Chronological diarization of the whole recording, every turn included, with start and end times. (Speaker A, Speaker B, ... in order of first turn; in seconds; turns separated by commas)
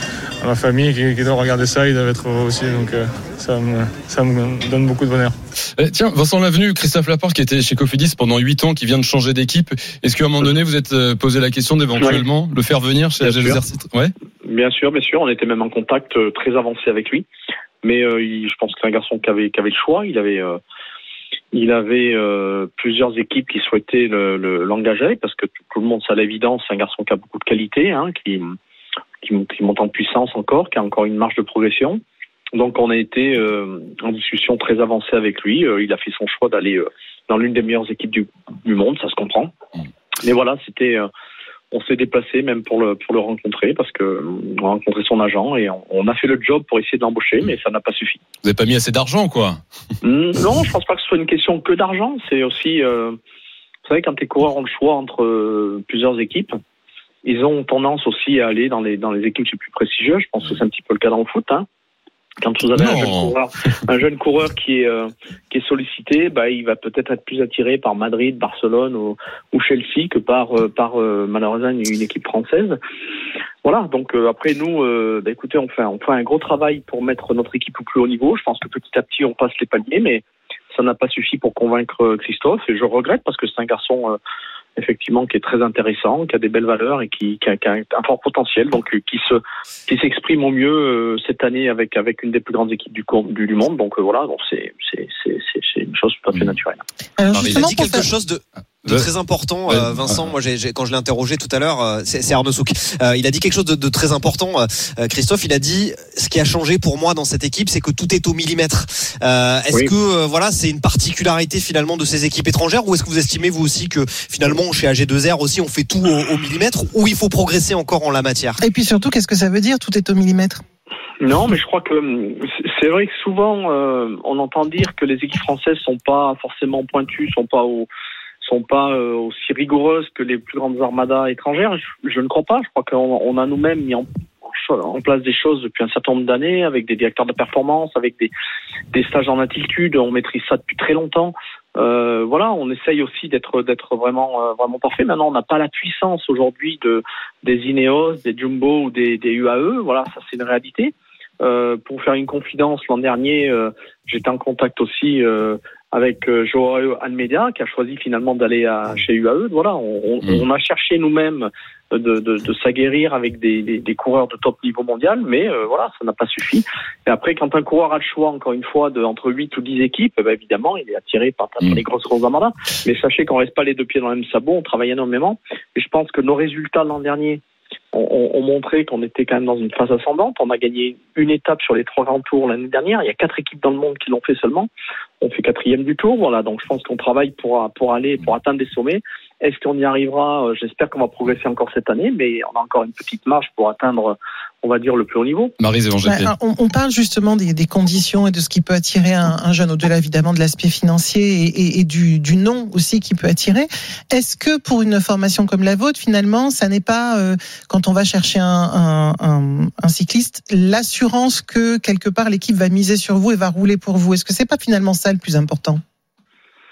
Speaker A: 0.4-5.3, Speaker B: 5.8-14.1, Speaker C: 13.2-13.6, Speaker C: 14.4-17.2, Speaker C: 17.8-20.6, Speaker C: 21.5-28.6, Speaker C: 29.2-32.0, Speaker C: 32.5-39.5, Speaker C: 40.2-41.1, Speaker C: 41.7-48.2, Speaker B: 48.4-49.6, Speaker C: 50.0-53.2, Speaker C: 53.9-56.5, Speaker C: 57.2-61.6, Speaker C: 62.4-72.8, Speaker B: 62.7-63.3, Speaker C: 73.6-84.2, Speaker C: 84.8-96.8, Speaker D: 97.2-98.0, Speaker B: 97.3-97.6, Speaker E: 97.4-118.6, Speaker B: 99.7-100.3, Speaker D: 118.6-120.6, Speaker C: 121.2-127.9, Speaker C: 128.4-138.3, Speaker C: 138.9-177.4, Speaker C: 177.9-184.7, Speaker C: 185.2-195.5, Speaker B: 195.6-196.3, Speaker D: 196.0-215.8